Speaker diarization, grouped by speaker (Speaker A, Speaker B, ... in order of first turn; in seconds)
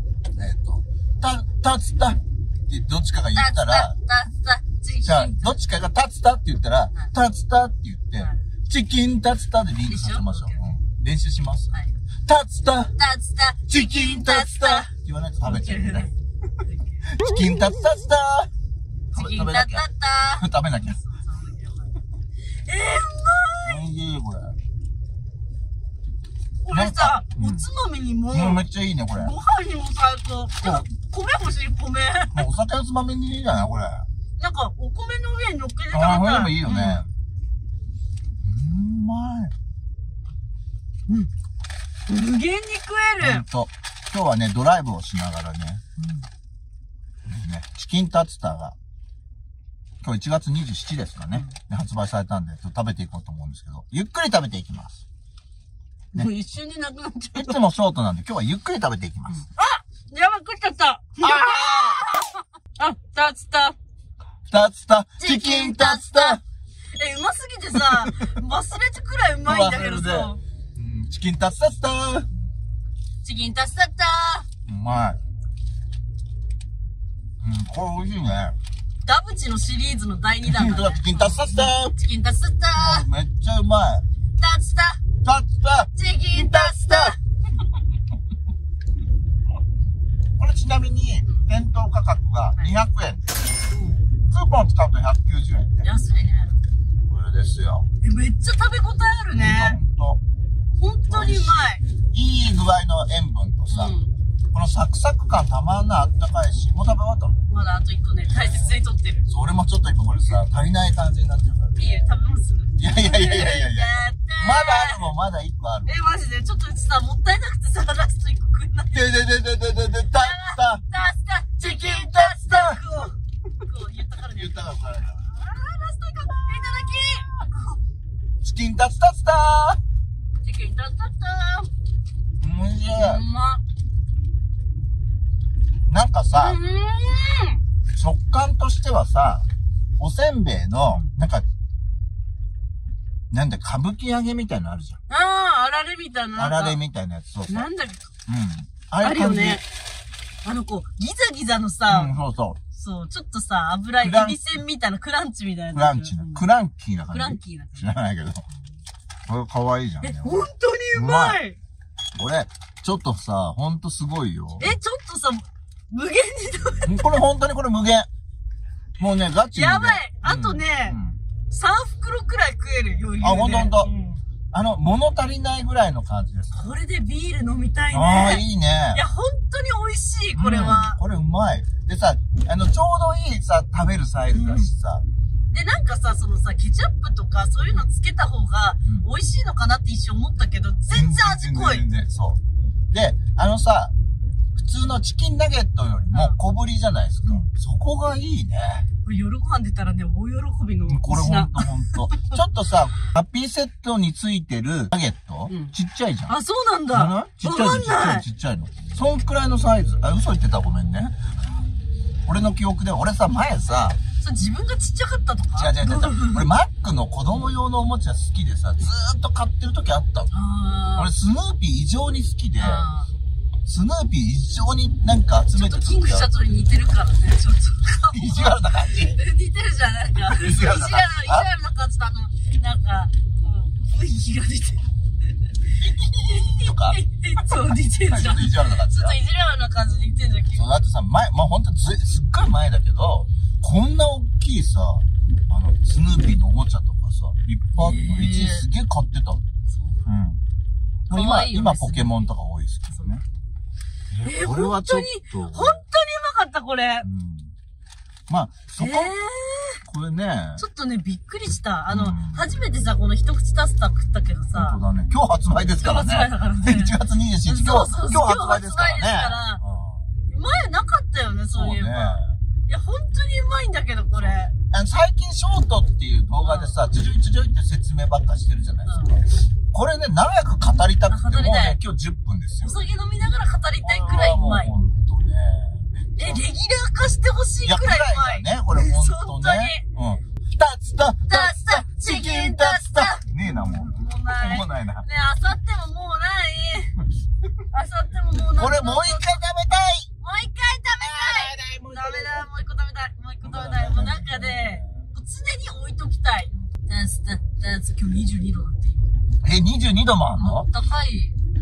Speaker A: 0.3-4.0, 5.0-11.7, 12.2-12.9, 13.7-16.1, 17.1-18.5, 19.1-21.0, 23.6-24.6, 26.7-27.6, 28.3-29.3, 32.3-34.0, 35.9-37.1, 38.4-39.5, 43.2-45.8, 47.2-48.8, 50.0-55.0, 57.3-59.4, 61.2-62.1, 64.5-66.4, 67.8-68.3, 69.4-72.3, 74.7-75.2, 77.4-78.5, 80.4-81.9, 82.7-84.0, 85.2-87.2, 90.4-93.3, 94.1-95.9, 97.1-97.9, 99.3-100.2, 101.1-103.9, 104.5-107.4, 108.3-112.0, 112.8-115.9, 118.9-120.8, 121.6-122.8, 124.3-125.2, 126.3-127.5, 128.4-129.8, 132.4-133.2, 135.9-136.6, 137.9-139.4, 140.0-141.4, 143.3-145.0, 146.3-147.7, 148.3-149.6, 151.9-152.6, 154.0-154.4, 155.7-158.4, 159.3-161.4, 162.1-164.7, 166.8-168.1, 169.0-171.2, 173.2-173.9, 174.5-176.7, 177.9-179.0, 180.3-185.0, 190.9-193.9, 194.5-198.8, 200.9-206.3, 206.9-211.2, 212.2-214.0, 215.6-220.3, 220.9-222.9, 223.7-226.4, 228.1-229.2, 230.3-231.5, 235.7-239.2, 240.5-249.4, 250.0-250.4, 251.1-253.2, 254.1-255.8, 257.0-257.5, 258.3-259.1, 259.8-260.6, 261.9-262.6, 264.5-270.1, 271.5-272.4, 274.7-282.8, 283.8-286.4, 287.6-295.1, 298.5-300.1, 301.0-302.4, 303.4-305.1, 309.4-310.7
Speaker B: 3.3-5.6, 9.9-10.7, 12.9-14.9, 15.4-17.1, 19.1-21.9, 22.6-23.8, 26.6-32.5, 34.4-37.0, 42.1-43.4, 46.0-46.2, 56.1-57.6, 59.3-63.8, 65.2-70.4, 73.2-74.5, 79.0-83.1, 84.4-85.0, 85.9-87.2, 95.8-96.6, 98.0-99.8, 100.8-101.8, 103.7-104.1, 107.5-109.3, 111.7-115.1, 115.8-119.2, 120.1-127.3, 130.4-131.7, 132.9-133.6, 136.3-137.6, 145.1-146.8, 147.5-148.1, 149.0-149.6, 150.4-152.2, 152.7-156.4, 157.1-157.9, 160.0-161.6, 164.6-167.2, 169.5-171.0, 171.5-174.2, 176.5-181.0, 184.3-184.7, 185.5-191.9, 196.1-196.4, 199.0-202.3, 205.5-205.7, 206.3-208.2, 214.2-216.4, 220.3-221.1, 222.6-223.1, 225.5-235.6, 236.2-240.8, 247.8-248.7, 249.7-250.1, 251.1-252.1, 254.2-257.1, 258.8-259.8, 260.6-264.8, 265.8-269.6, 270.3-274.5, 276.4-276.8, 278.9-279.2, 281.1-281.8, 282.6-284.7, 286.2-289.9, 291.3-297.0, 297.7-299.4, 300.2-309.1, 310.4-311.4